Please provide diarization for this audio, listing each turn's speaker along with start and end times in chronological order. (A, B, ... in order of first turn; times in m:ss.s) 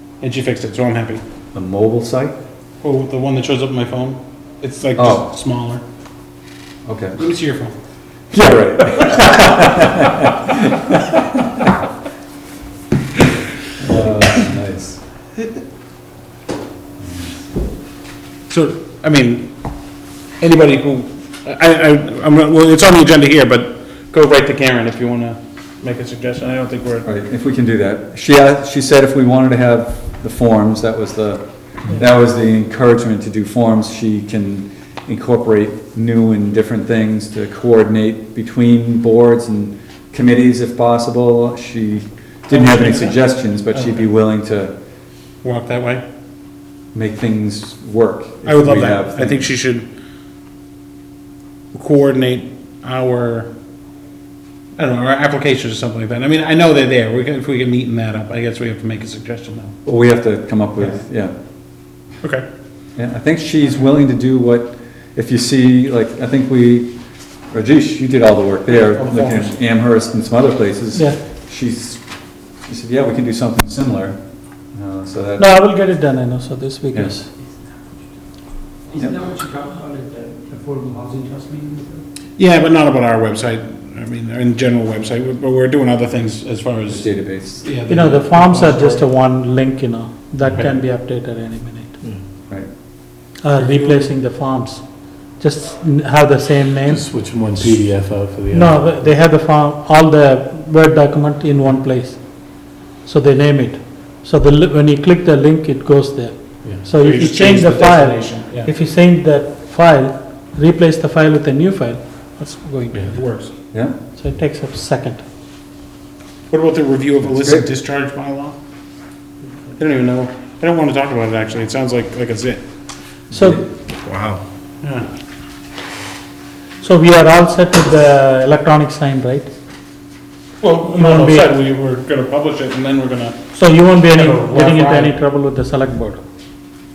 0:00.2-0:01.2 A
0:01.5-0:02.3 B
0:02.8-0:05.8 A
0:05.0-0:05.3 B
0:06.8-0:07.2 B
0:07.2-0:07.8 A
0:08.3-0:11.7 B
0:13.8-0:15.0 B
0:17.0-0:17.4 B
0:18.5-0:19.5 A
0:20.4-0:27.1 A
0:27.0-0:44.7 B
0:42.5-0:43.2 A
0:43.7-0:44.0 A
0:45.4-0:46.0 A
0:46.9-0:49.5 B
0:48.4-0:49.9 A
0:51.7-0:53.5 A
0:54.8-0:59.8 A
0:59.8-1:01.3 B
1:03.0-1:06.9 B
1:07.5-1:12.0 B
1:08.9-1:09.6 A
1:12.7-1:14.2 B
1:14.8-1:15.6 B
1:15.4-1:17.3 C
1:18.9-1:21.9 D
1:19.1-1:20.0 E
1:22.4-1:29.0 A
1:26.9-1:27.7 B
1:27.9-1:32.0 C
1:30.4-1:30.8 A
1:33.4-1:37.1 C
1:33.6-1:34.1 A
1:36.8-1:39.2 E
1:38.5-1:53.2 C
1:46.6-1:46.9 E
1:46.9-1:48.7 A
1:53.1-1:53.5 A
1:54.1-1:55.2 C
1:56.5-1:58.6 A
1:57.3-1:57.6 B
1:59.8-2:02.6 A
2:03.3-2:03.6 C
2:03.3-2:03.6 B
2:04.0-2:05.1 A
2:06.8-2:09.5 C
2:10.6-2:13.5 A
2:10.9-2:11.5 C
2:13.5-2:16.2 C
2:14.1-2:15.2 A